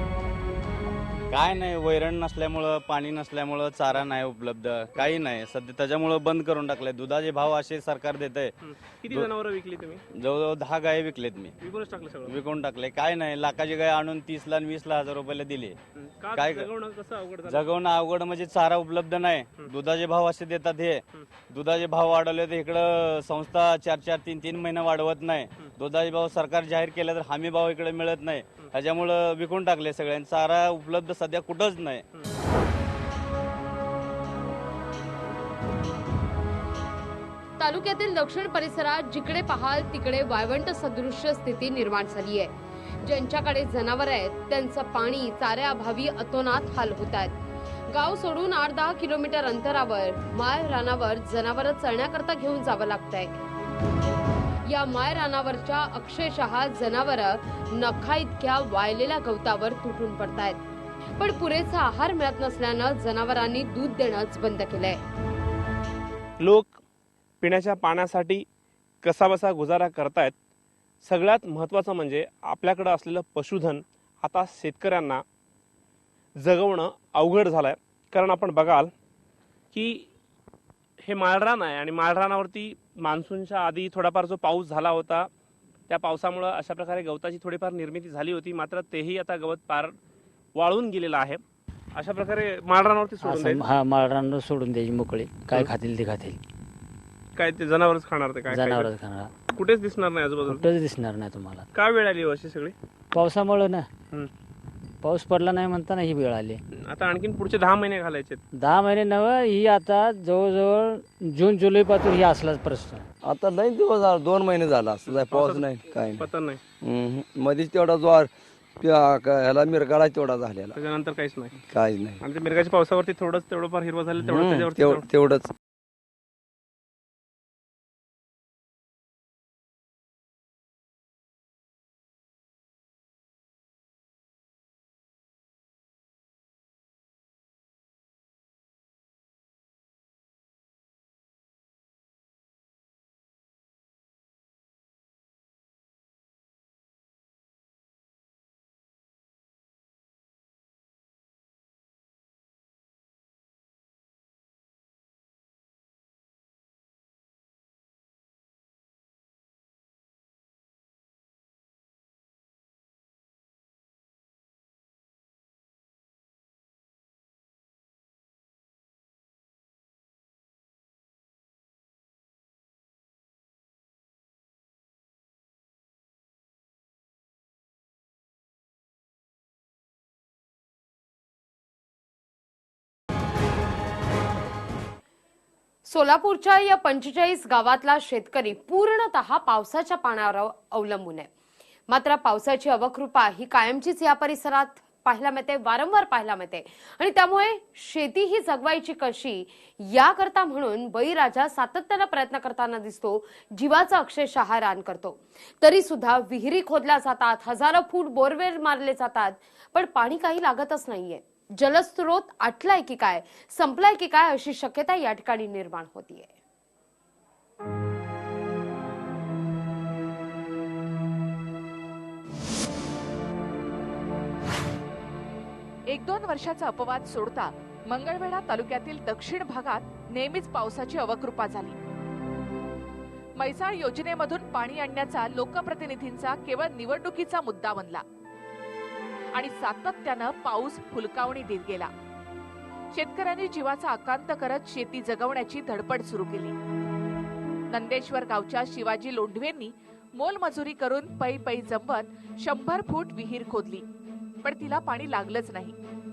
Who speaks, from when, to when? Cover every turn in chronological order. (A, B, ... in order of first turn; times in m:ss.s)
0:01.3-0:08.5 A
0:08.6-0:10.0 B
0:10.1-0:11.5 A
0:11.6-0:12.4 B
0:12.3-0:15.8 A
0:16.0-0:17.7 B
0:16.4-0:16.7 A
0:17.5-0:32.0 A
0:37.6-0:53.4 C
0:54.6-1:00.6 C
1:01.2-1:05.0 C
1:06.4-1:06.8 B
1:07.4-1:08.4 B
1:09.0-1:10.3 B
1:11.0-1:15.2 B
1:16.4-1:18.9 B
1:19.7-1:20.1 B
1:21.0-1:25.3 B
1:25.9-1:30.0 B
1:30.6-1:31.4 B
1:32.0-1:33.7 B
1:33.2-1:36.4 D
1:37.4-1:38.9 B
1:38.5-1:39.3 D
1:39.5-1:40.7 B
1:40.5-1:41.6 D
1:41.7-1:42.8 B
1:43.1-1:43.8 D
1:45.0-1:46.6 D
1:46.8-1:48.4 B
1:48.6-1:53.0 D
1:53.2-1:56.2 E
1:55.1-1:56.6 B
1:56.8-2:00.8 E
2:00.7-2:01.6 B
2:01.7-2:02.2 E
2:02.2-2:05.1 B
2:04.3-2:05.5 E
3:05.8-3:11.3 C
3:11.9-3:36.4 C
3:45.9-3:51.8 F
3:53.4-3:58.0 F
3:59.3-4:01.9 F
4:02.9-4:06.6 F
4:07.7-4:13.8 F
4:14.4-4:15.8 F